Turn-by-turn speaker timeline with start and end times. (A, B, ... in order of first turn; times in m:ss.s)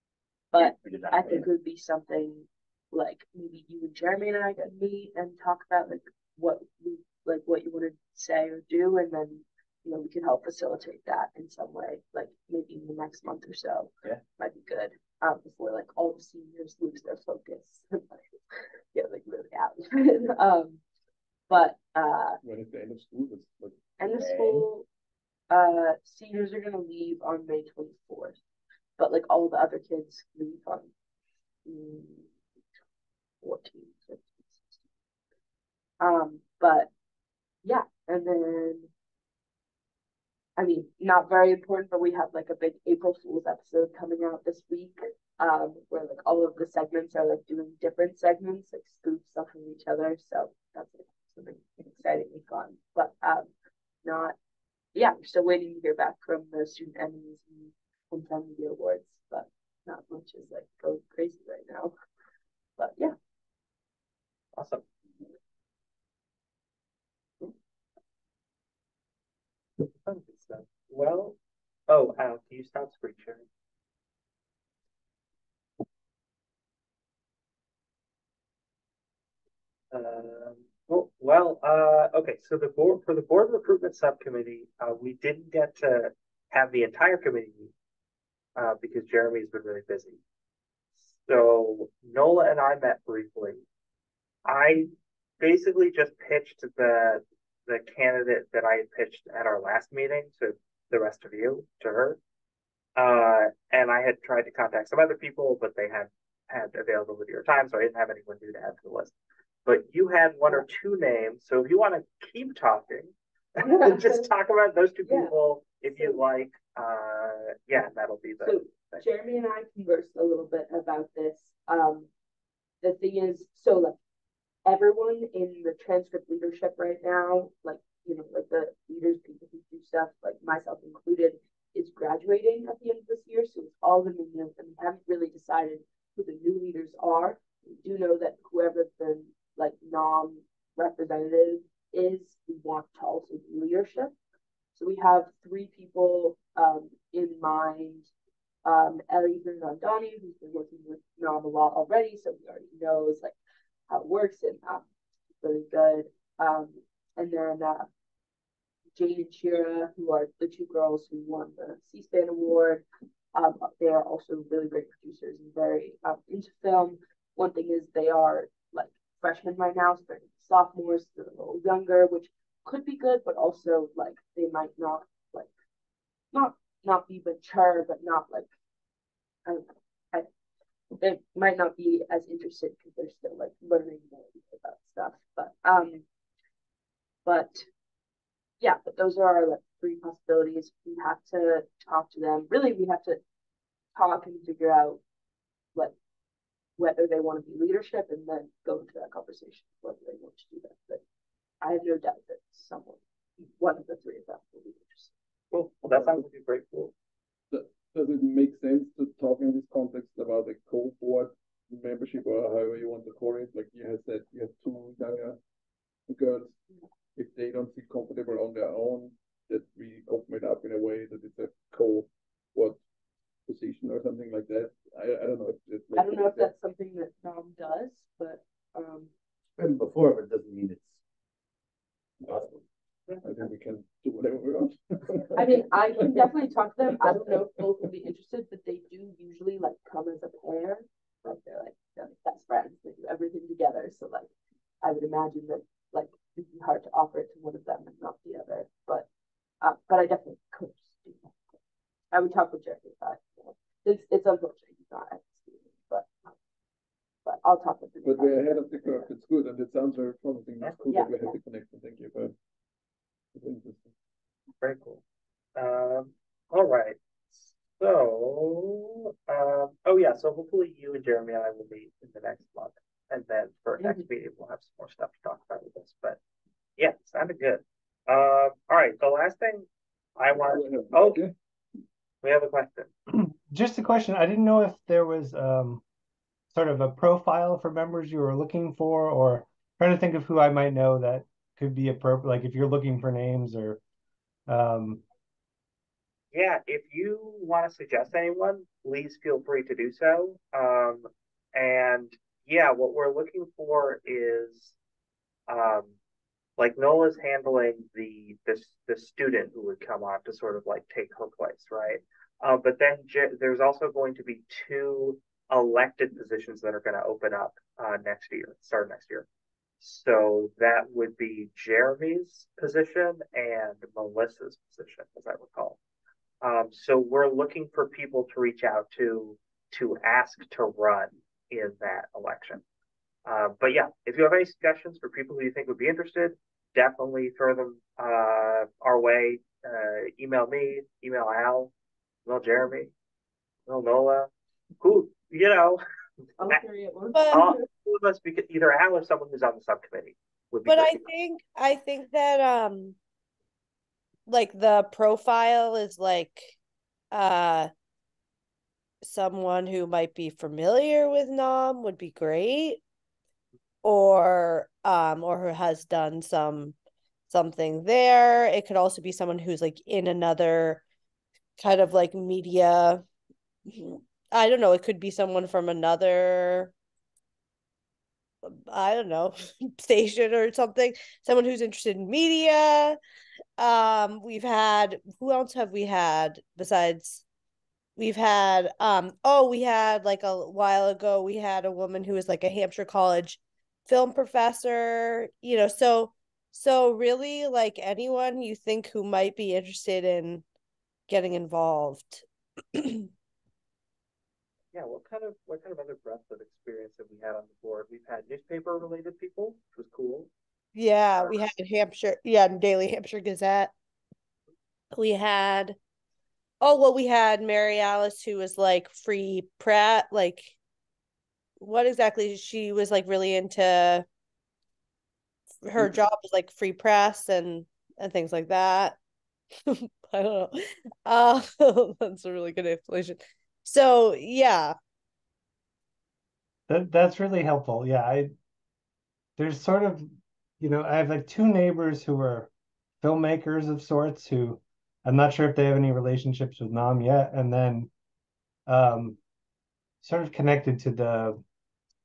0:00.5-0:18.2 A
0:00.6-0:01.5 B
0:18.9-0:20.8 A
0:21.5-0:22.4 A
0:22.4-0:23.9 C
0:24.0-0:24.8 A
0:24.1-0:24.6 B
0:25.5-0:28.4 A
0:29.0-0:30.9 A
0:31.6-0:32.3 A
0:33.4-0:34.8 A
0:36.0-0:36.9 A
0:37.6-0:38.9 A
0:40.6-0:53.5 A
0:54.0-0:54.4 A
0:54.9-1:01.9 A
1:02.8-1:03.1 A
1:04.6-1:04.8 D
1:09.8-1:11.4 D
1:11.9-1:13.4 D
1:19.9-1:27.7 D
1:28.6-1:30.2 D
1:31.2-1:33.6 D
1:34.4-1:42.2 D
1:43.0-1:49.1 D
1:49.6-1:59.0 D
1:53.6-1:54.3 A
1:55.0-1:55.3 A
1:55.9-1:56.2 A
1:58.4-2:02.1 A
2:02.8-2:04.0 A
2:04.6-2:24.1 A
2:24.7-2:28.1 A
2:28.6-2:33.4 A
2:33.9-2:34.8 A
2:35.4-2:37.9 A
2:39.0-2:55.5 A
2:56.3-2:58.5 A
2:59.4-3:00.3 A
3:01.0-3:06.0 A
3:07.2-3:07.6 A
3:08.6-3:13.2 A
3:13.9-3:15.0 A
3:16.8-3:21.0 A
3:21.6-3:25.1 A
3:25.5-3:26.9 D
3:27.5-3:35.4 C
3:36.1-3:36.6 C
3:37.2-3:42.8 C
3:43.5-3:46.5 C
3:45.9-3:49.1 A
3:49.6-3:51.0 B
3:52.2-3:52.6 B
3:52.3-3:52.5 C
3:53.2-3:56.3 C
3:55.3-4:04.3 A
4:04.8-4:09.1 A
4:09.6-4:11.3 A
4:12.1-4:16.3 A
4:17.2-4:19.1 A
4:18.0-4:22.3 C
4:20.9-4:21.4 A
4:23.3-4:23.9 C
4:24.6-4:25.0 D
4:25.6-4:36.2 D
4:33.8-4:34.0 A
4:36.8-4:41.2 D
4:40.3-4:41.3 C
4:42.2-4:42.9 D
4:43.5-4:45.8 E
4:46.5-4:53.8 E
4:54.5-4:55.0 E
4:56.3-5:04.8 D
5:05.5-5:05.9 D
5:06.6-5:19.2 D
5:19.8-5:25.8 D
5:26.4-5:32.6 D
5:33.2-5:41.7 D
5:42.2-5:42.9 D
5:43.7-5:44.3 D
5:44.8-5:45.8 D
5:46.4-5:47.6 A
5:47.1-5:47.5 F
5:47.3-5:51.0 D
5:50.6-5:53.0 F
5:54.3-5:56.5 F
5:57.1-5:57.7 F
5:59.0-6:02.8 F
6:03.8-6:06.7 F
6:07.3-6:10.8 F
6:11.6-6:13.0 F
6:13.7-6:16.7 F
6:18.4-6:23.0 F
6:23.6-6:27.2 F
6:28.0-6:40.4 F
6:41.1-6:42.2 F
6:42.7-6:43.1 F
6:44.7-6:50.3 D
6:50.7-6:53.7 F
6:51.2-6:51.4 D
6:54.9-6:55.8 F
6:56.6-7:00.6 F
7:01.6-7:04.0 F
7:05.6-7:09.0 F
7:09.7-7:14.7 F
7:16.7-7:18.3 E
7:19.4-7:20.1 E
7:20.6-7:22.5 E
7:23.0-7:27.9 E
7:28.7-7:29.2 E
7:30.0-7:31.4 E